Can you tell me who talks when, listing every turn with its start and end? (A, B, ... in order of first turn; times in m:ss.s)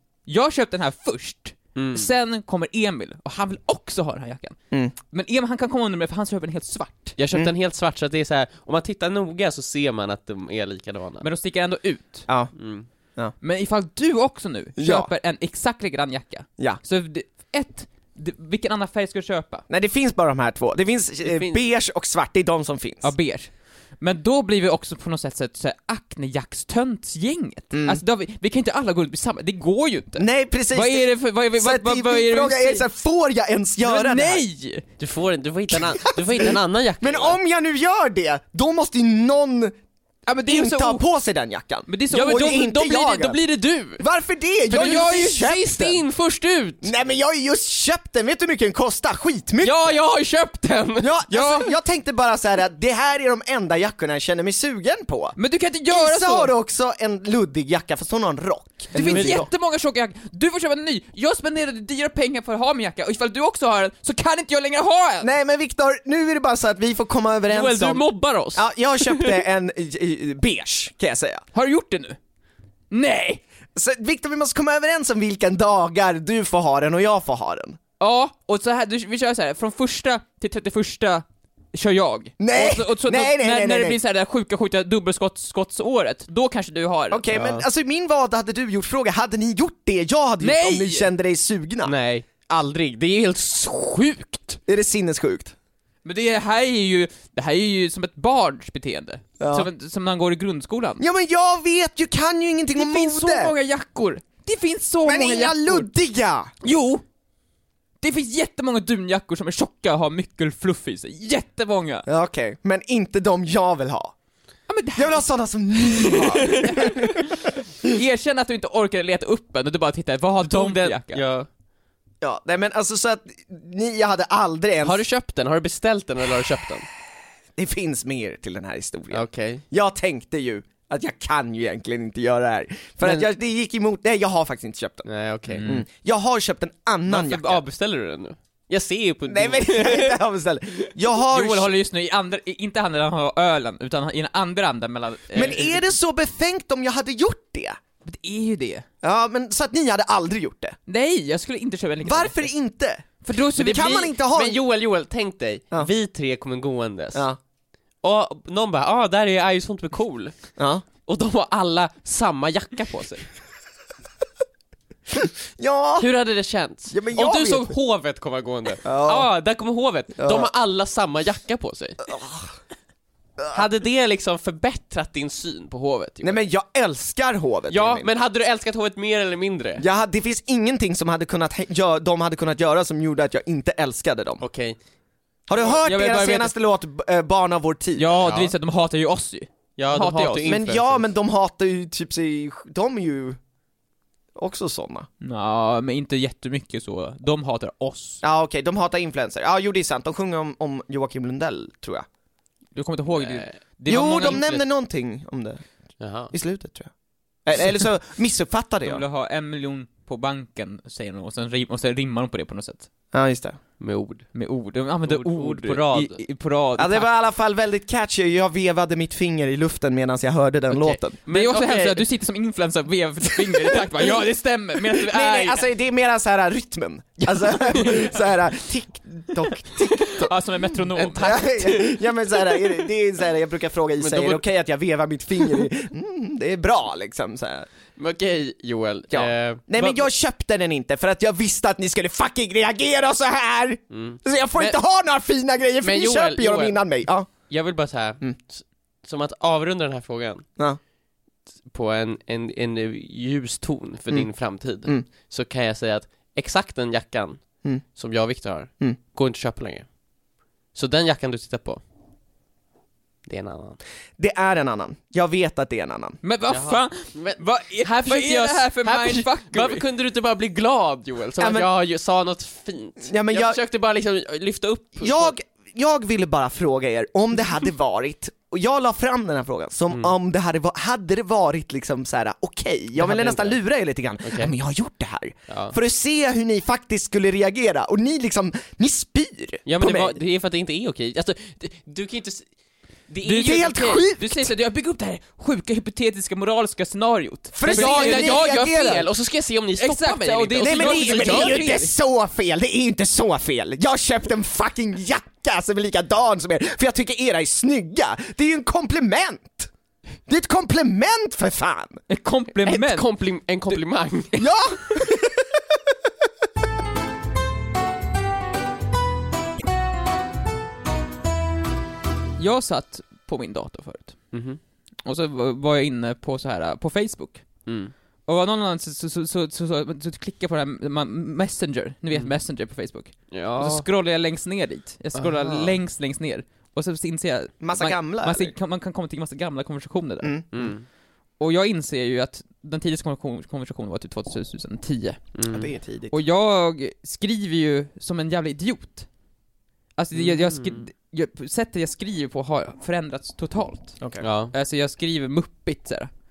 0:00.3-0:04.6 A
0:01.7-0:02.1 B
0:05.1-0:07.2 A
0:07.2-0:11.2 B
0:11.2-0:12.3 A
0:12.3-0:12.5 C
0:12.6-0:12.9 B
0:13.4-0:19.6 A
0:14.8-0:15.1 C
0:19.7-0:23.1 C
0:21.2-0:21.6 B
0:23.0-0:32.9 A
0:27.7-0:28.0 C
0:30.2-0:34.4 C
0:33.8-0:34.8 A
0:35.0-0:37.4 B
0:36.1-0:39.7 C
0:40.2-0:41.0 A
0:40.4-0:43.4 C
0:41.9-0:42.7 A
0:42.1-0:44.0 B
0:44.0-0:46.0 C
0:44.7-0:46.9 B
0:46.8-0:49.8 C
0:49.6-0:51.1 B
0:51.0-0:55.4 C
0:51.3-0:51.7 A
0:55.4-0:56.5 A
0:55.9-0:59.5 C
0:58.9-1:05.3 A
0:59.0-0:59.4 B
1:05.2-1:08.0 C
1:07.5-1:09.4 B
1:08.5-1:11.4 C
1:11.5-1:12.2 A
1:12.9-1:13.4 A
1:13.7-1:17.8 C
1:18.0-1:27.2 A
1:22.4-1:24.0 C
1:27.1-1:31.9 C
1:27.3-1:27.6 B
1:30.4-1:31.1 A
1:31.8-1:34.6 B
1:34.7-1:35.5 C
1:36.0-1:41.0 A
1:39.4-1:39.7 C
1:41.0-1:43.5 C
1:42.8-1:45.9 A
1:45.0-1:46.5 C
1:46.6-1:47.0 A
1:48.0-1:52.1 A
1:52.0-1:54.1 C
1:54.7-2:01.2 A
1:55.0-1:57.2 C
2:00.4-2:01.5 B
2:02.2-2:05.0 C
2:04.8-2:06.9 B
2:07.6-2:15.0 C
2:09.1-2:09.6 B
2:13.0-2:13.3 B
2:15.0-2:15.6 B
2:15.5-2:15.8 A
2:15.6-2:17.6 C
2:17.1-2:20.2 B
2:19.3-2:21.7 C
2:21.3-2:25.8 A
2:25.3-2:27.8 C
2:28.0-2:28.8 A
2:29.0-2:30.8 C
2:30.9-2:32.5 A
2:32.0-2:33.0 C
2:33.2-2:34.0 A
2:33.6-2:34.6 C
2:33.6-2:37.2 B
2:37.1-2:37.4 C
2:38.0-2:40.3 B
2:40.6-2:40.8 C
2:41.0-2:43.3 B
2:45.2-2:46.1 C
2:46.0-2:52.0 B
2:46.9-2:47.7 C
2:48.8-2:49.3 C
2:50.2-2:50.5 C
2:52.1-2:52.5 C
2:53.5-2:56.4 B
2:56.2-2:58.1 C
2:57.7-2:59.8 B
2:59.8-3:04.4 C
3:04.4-3:04.8 B
3:05.5-3:08.1 C
3:05.6-3:06.5 A
3:08.0-3:10.5 A
3:08.2-3:08.5 B
3:09.8-3:11.1 B
3:10.4-3:13.4 C
3:14.4-3:15.1 C
3:15.2-3:18.2 A
3:18.2-3:22.0 C
3:22.7-3:24.6 A
3:23.2-3:23.5 B
3:23.9-3:25.6 C
3:26.0-3:26.3 B
3:26.3-3:26.9 C
3:27.4-3:29.0 C
3:28.8-3:32.9 A
3:33.1-3:33.6 C
3:33.8-3:34.3 B
3:34.3-3:37.1 A
3:35.1-3:36.2 B
3:36.8-3:41.2 C
3:40.7-3:42.0 B
3:41.3-3:45.6 A
3:43.4-3:43.8 C
3:44.9-3:50.3 C
3:50.1-3:51.4 A
3:50.9-3:52.8 B
3:51.2-3:57.7 C
3:54.0-3:54.4 B
3:58.0-4:00.0 B
3:59.1-4:07.4 C
4:03.9-4:04.8 B
4:05.8-4:10.4 B
4:11.7-4:19.9 B
4:14.1-4:15.0 C
4:20.7-4:21.8 B
4:23.2-4:23.8 B
4:24.2-4:26.2 C
4:26.2-4:29.8 A
4:26.5-4:35.3 B
4:31.4-4:31.7 C
4:33.0-4:33.6 C
4:35.0-4:50.2 C
4:43.0-4:43.6 B
4:44.2-4:44.5 B
4:45.5-4:45.8 B
4:49.6-4:52.5 B
4:53.1-4:54.0 B
4:53.2-4:58.6 A
4:53.3-4:54.5 C
4:57.5-4:59.1 C
4:57.7-5:01.7 B
4:59.8-5:01.9 A
5:00.6-5:09.7 C
5:10.3-5:12.0 C
5:12.1-5:13.0 A
5:12.6-5:14.4 B
5:14.4-5:15.9 C
5:22.4-5:24.2 A
5:24.3-5:24.6 B
5:25.0-5:27.4 A
5:27.6-5:27.9 B
5:28.2-5:40.7 A
5:33.3-5:33.9 B
5:35.2-5:35.7 B
5:37.6-5:38.5 C
5:40.5-5:40.8 B
5:41.4-5:45.2 A
5:45.3-5:45.7 B
5:45.5-5:46.2 C
5:46.1-5:49.1 A
5:50.0-5:54.0 A
5:50.1-5:50.8 B
5:54.0-5:54.2 C
5:54.2-5:54.5 B
5:54.5-5:56.1 A